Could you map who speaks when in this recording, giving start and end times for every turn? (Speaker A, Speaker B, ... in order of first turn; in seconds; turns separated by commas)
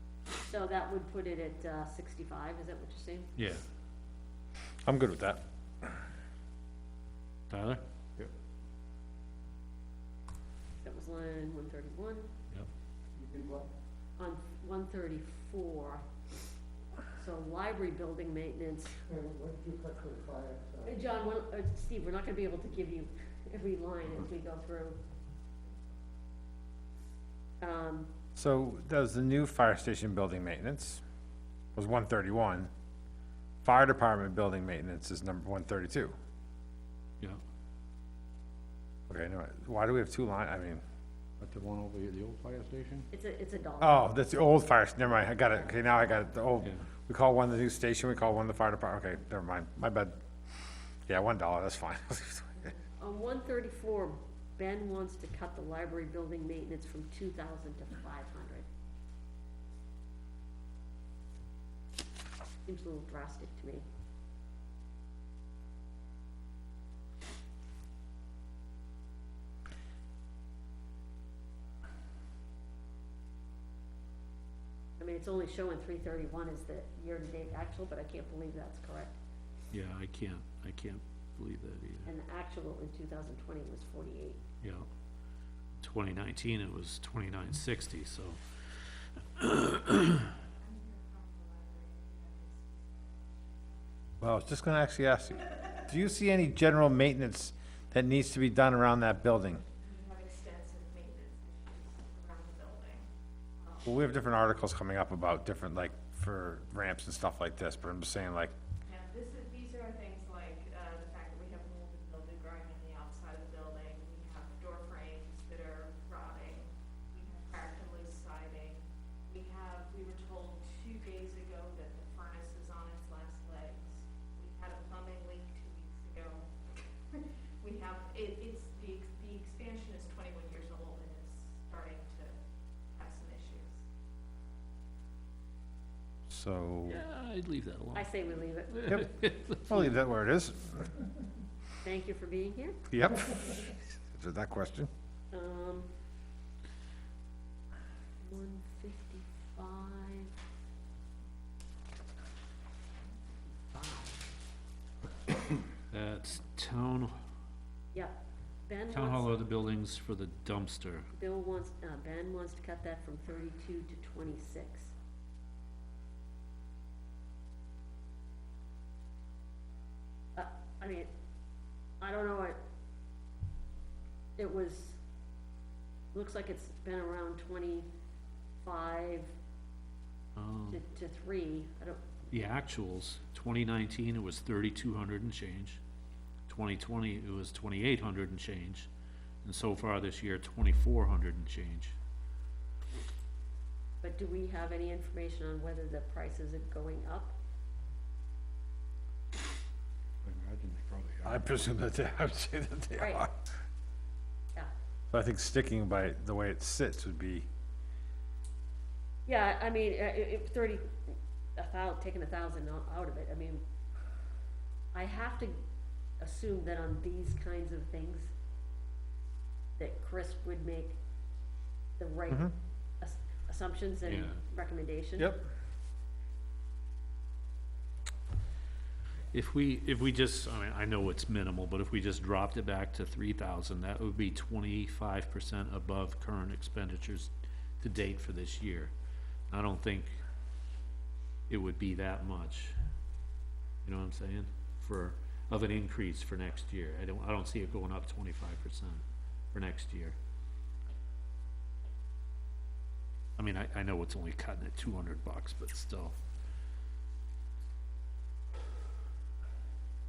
Speaker A: 0.4-3.3, Speaker B: 3.4-3.6, Speaker C: 4.8-6.0, Speaker B: 7.5-7.8, Speaker A: 10.8-12.3, Speaker D: 13.2-13.7, Speaker A: 14.2-16.0, Speaker A: 17.1-19.0, Speaker D: 19.1-20.9, Speaker A: 20.8-25.0, Speaker A: 27.6-28.1, Speaker C: 28.4-31.0, Speaker C: 31.7-32.7, Speaker C: 33.6-36.1, Speaker C: 39.1-40.8, Speaker E: 41.4-43.1, Speaker A: 43.1-44.1, Speaker C: 43.8-50.2, Speaker B: 46.6-46.9, Speaker C: 51.0-52.7, Speaker A: 52.9-58.7, Speaker A: 62.6-63.8, Speaker A: 75.0-79.2, Speaker B: 79.7-82.1, Speaker A: 82.0-84.4, Speaker B: 84.6-84.9, Speaker B: 85.8-88.8, Speaker B: 89.3-90.3, Speaker F: 90.5-93.6, Speaker C: 94.2-99.6, Speaker F: 99.8-103.1, Speaker F: 103.6-103.8, Speaker C: 103.8-108.5, Speaker F: 108.8-126.5, Speaker F: 127.1-132.3, Speaker F: 132.9-133.8, Speaker C: 136.3-137.0, Speaker B: 136.9-139.7, Speaker A: 137.9-138.9, Speaker C: 139.7-140.9, Speaker A: 141.8-142.8, Speaker C: 142.9-144.9, Speaker A: 145.3-145.9, Speaker A: 148.2-150.3, Speaker A: 153.7-154.2, Speaker B: 155.9-157.2, Speaker A: 157.9-159.4, Speaker B: 158.9-161.1, Speaker A: 161.2-164.9, Speaker A: 170.3-171.1, Speaker A: 172.0-172.6, Speaker A: 174.4-175.0, Speaker A: 176.1-177.9, Speaker A: 178.6-179.3, Speaker B: 180.3-180.8, Speaker A: 180.7-182.0, Speaker B: 182.3-185.8, Speaker B: 186.5-188.9, Speaker B: 189.4-191.9, Speaker A: 194.0-197.3, Speaker E: 200.2-201.5, Speaker C: 201.2-203.4, Speaker A: 203.0-203.3, Speaker C: 205.1-207.5, Speaker A: 209.2-213.6, Speaker A: 214.9-215.6, Speaker A: 216.2-218.3, Speaker A: 219.8-221.0, Speaker A: 222.0-225.3, Speaker B: 224.0-224.4, Speaker C: 225.2-225.5, Speaker B: 229.3-238.9, Speaker B: 239.5-240.1, Speaker B: 241.5-242.8, Speaker B: 243.8-250.2, Speaker B: 253.3-256.2